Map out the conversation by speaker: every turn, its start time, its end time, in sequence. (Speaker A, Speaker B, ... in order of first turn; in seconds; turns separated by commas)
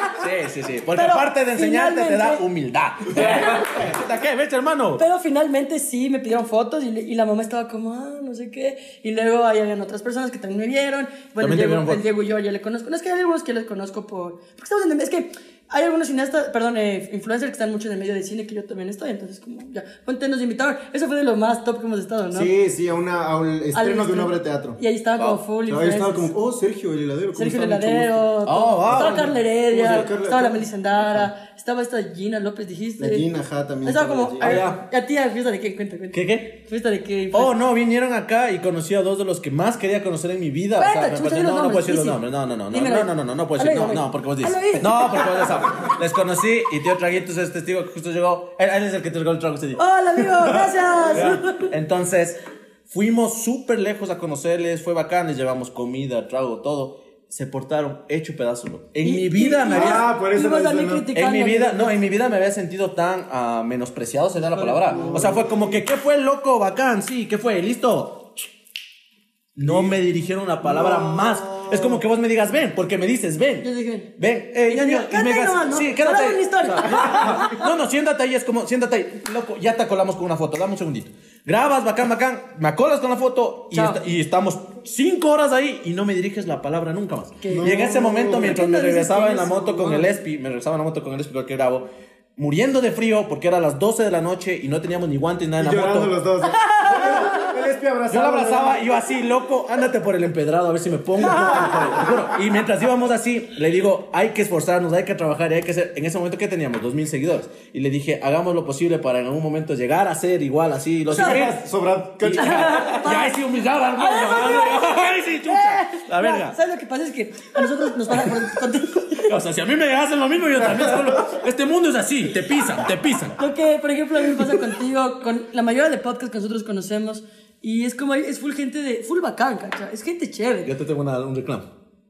Speaker A: 0.1-5.0, Speaker B: 0.9-2.4, Speaker B: 3.1-3.8, Speaker B: 5.0-22.5, Speaker A: 11.4-12.0, Speaker C: 22.3-24.8, Speaker B: 23.7-26.3, Speaker C: 25.7-28.3, Speaker B: 27.4-33.3, Speaker A: 28.4-30.0, Speaker C: 28.8-31.3, Speaker C: 33.0-34.6, Speaker B: 33.8-37.5, Speaker A: 34.4-34.8, Speaker A: 36.1-36.5, Speaker A: 37.3-60.1, Speaker B: 40.8-45.6, Speaker B: 49.8-51.7, Speaker B: 59.0-62.0, Speaker C: 59.7-61.1, Speaker A: 61.1-68.5, Speaker B: 64.6-65.1, Speaker C: 64.8-65.8, Speaker A: 69.5-73.7, Speaker C: 69.6-70.0, Speaker C: 70.6-72.0, Speaker B: 73.6-74.1, Speaker A: 74.2-91.8, Speaker B: 74.7-77.6, Speaker B: 83.7-84.0, Speaker B: 87.4-90.1, Speaker C: 87.5-88.6, Speaker A: 92.4-96.2, Speaker C: 95.6-99.0, Speaker B: 96.5-97.5, Speaker A: 98.1-111.6, Speaker C: 101.3-101.8, Speaker C: 111.1-112.9, Speaker B: 111.2-111.4, Speaker A: 112.2-116.6, Speaker B: 112.3-113.4, Speaker B: 114.0-119.3, Speaker A: 119.1-123.4, Speaker B: 123.4-130.7, Speaker A: 130.6-131.7